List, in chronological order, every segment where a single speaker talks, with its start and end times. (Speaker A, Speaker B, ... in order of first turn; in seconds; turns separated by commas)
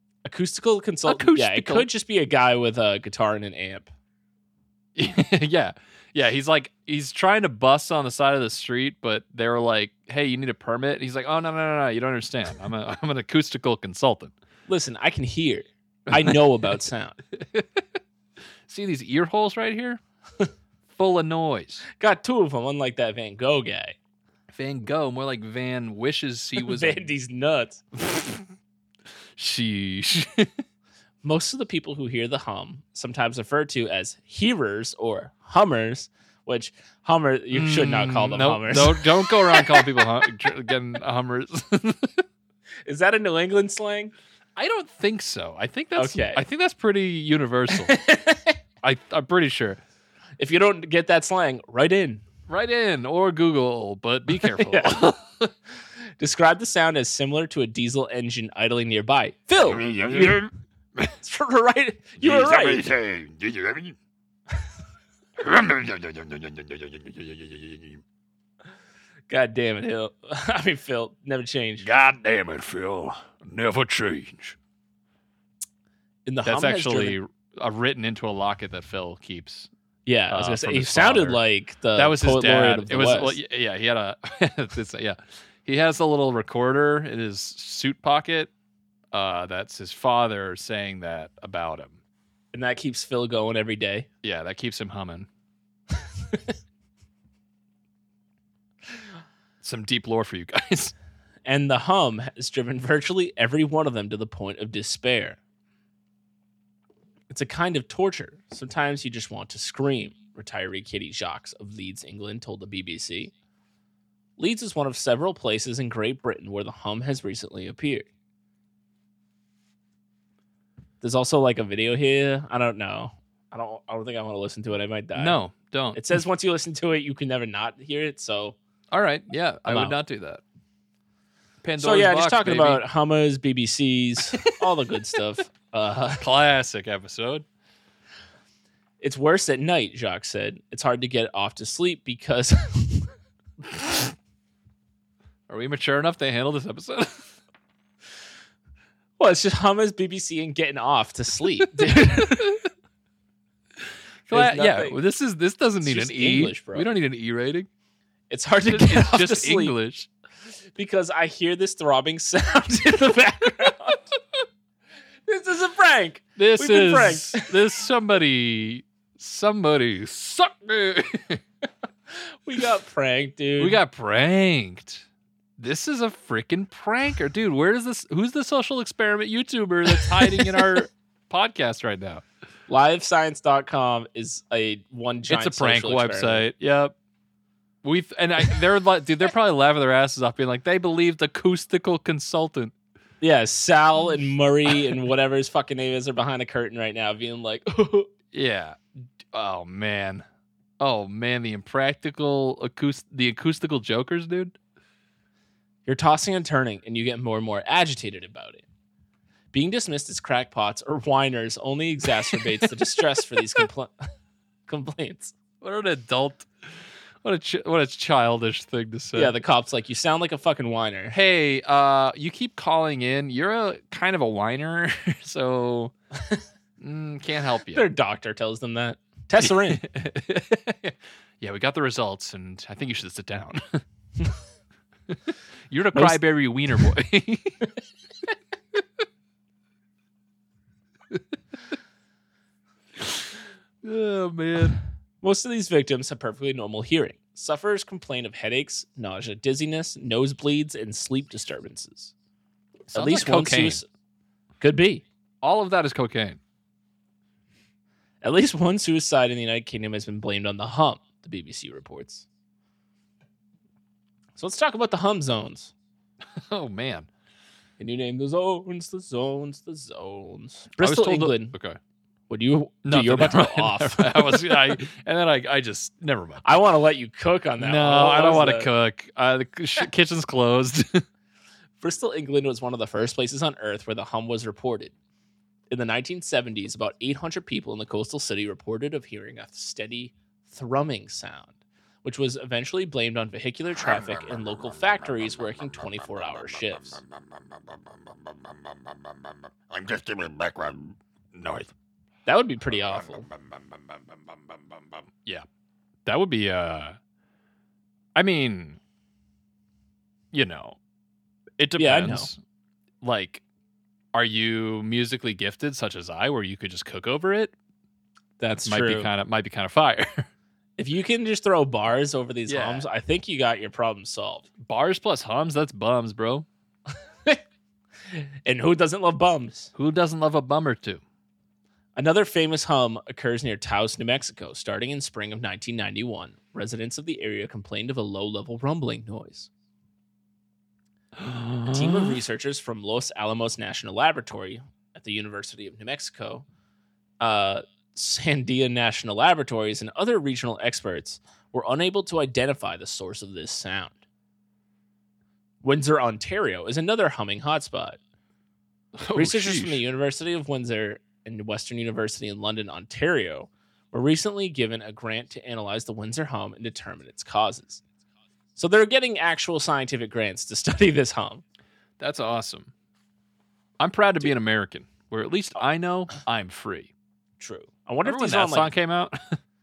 Speaker A: 0.2-3.9, Speaker B: 1.1-1.9, Speaker B: 5.0-14.3, Speaker A: 14.7-17.2, Speaker B: 16.1-16.6, Speaker B: 17.3-17.9, Speaker B: 18.7-20.0, Speaker B: 20.9-21.8, Speaker A: 22.0-23.9, Speaker B: 24.5-27.0, Speaker A: 26.6-27.8, Speaker B: 27.9-28.4, Speaker B: 29.4-30.6, Speaker A: 31.2-40.0, Speaker B: 37.5-42.2, Speaker A: 42.9-44.1, Speaker B: 44.5-48.0, Speaker A: 46.0-46.4, Speaker A: 47.7-48.6, Speaker B: 48.8-49.8, Speaker A: 50.4-52.2, Speaker B: 52.5-55.5, Speaker A: 54.4-55.0, Speaker A: 56.2-60.5, Speaker C: 59.6-60.5, Speaker A: 61.2-62.8, Speaker C: 62.2-64.0, Speaker C: 65.4-68.0, Speaker A: 69.3-71.9, Speaker B: 71.8-72.1, Speaker C: 71.9-73.4, Speaker B: 73.2-74.5, Speaker A: 76.2-77.2, Speaker B: 76.4-79.7, Speaker A: 80.0-83.4, Speaker B: 80.3-81.4, Speaker B: 81.9-88.5, Speaker B: 89.1-92.0, Speaker A: 92.5-94.1, Speaker B: 94.2-95.3, Speaker B: 99.6-100.9, Speaker A: 101.5-105.4, Speaker A: 107.3-113.3, Speaker A: 114.4-118.1, Speaker A: 121.0-125.4, Speaker B: 125.1-126.0, Speaker A: 125.9-128.6, Speaker B: 128.9-130.4, Speaker A: 129.7-130.0, Speaker B: 131.6-132.8, Speaker A: 131.8-136.3, Speaker B: 136.2-137.4, Speaker A: 139.0-143.1, Speaker B: 145.5-147.3, Speaker A: 149.2-152.6, Speaker B: 152.0-152.5, Speaker A: 154.3-155.0, Speaker B: 154.3-157.7, Speaker A: 155.8-156.9, Speaker A: 158.3-159.8, Speaker B: 158.6-160.1, Speaker A: 160.8-164.1, Speaker A: 165.3-167.6, Speaker B: 166.4-171.4, Speaker A: 172.1-173.8, Speaker B: 173.6-175.0, Speaker B: 175.6-182.2, Speaker A: 182.7-186.4, Speaker B: 185.3-186.9, Speaker B: 187.8-192.7, Speaker A: 193.2-198.1, Speaker B: 198.3-200.2, Speaker B: 200.8-204.6, Speaker A: 205.8-208.6, Speaker A: 209.5-213.9, Speaker A: 214.7-215.3, Speaker B: 215.6-216.5, Speaker B: 217.2-219.3, Speaker A: 219.1-221.2, Speaker B: 221.1-225.9, Speaker B: 226.8-227.8, Speaker A: 227.7-229.8, Speaker B: 229.4-233.8, Speaker B: 235.7-237.6, Speaker A: 235.9-236.2, Speaker B: 243.0-244.8, Speaker A: 245.2-252.1, Speaker B: 252.9-253.8, Speaker A: 252.9-253.8, Speaker A: 254.6-255.0, Speaker B: 255.4-256.4, Speaker A: 258.2-262.2, Speaker A: 264.4-265.7, Speaker B: 266.4-267.1, Speaker A: 267.8-271.5, Speaker B: 270.8-271.8, Speaker A: 272.3-274.5, Speaker B: 272.8-276.5, Speaker A: 276.4-278.7, Speaker B: 277.6-281.0, Speaker A: 281.8-284.9, Speaker A: 285.7-291.5, Speaker A: 292.0-297.0, Speaker C: 293.7-301.0, Speaker B: 301.4-301.7, Speaker A: 302.2-303.2, Speaker C: 302.7-305.1, Speaker B: 306.1-307.0, Speaker B: 308.1-308.8, Speaker B: 310.3-310.8, Speaker B: 311.6-312.4, Speaker A: 311.8-312.3, Speaker B: 313.0-313.4, Speaker B: 314.1-317.5, Speaker A: 318.4-319.1, Speaker B: 318.6-320.3, Speaker A: 320.8-324.5, Speaker B: 322.5-322.9, Speaker B: 324.6-326.5, Speaker A: 328.1-329.7, Speaker B: 329.7-331.0, Speaker A: 331.9-339.5, Speaker B: 341.2-342.1, Speaker A: 341.7-346.4, Speaker A: 347.2-353.9, Speaker A: 355.6-358.0, Speaker B: 359.0-359.8, Speaker A: 359.1-367.8, Speaker A: 368.6-371.4, Speaker B: 372.0-372.7, Speaker B: 373.8-376.9, Speaker A: 377.4-378.7, Speaker B: 378.0-379.4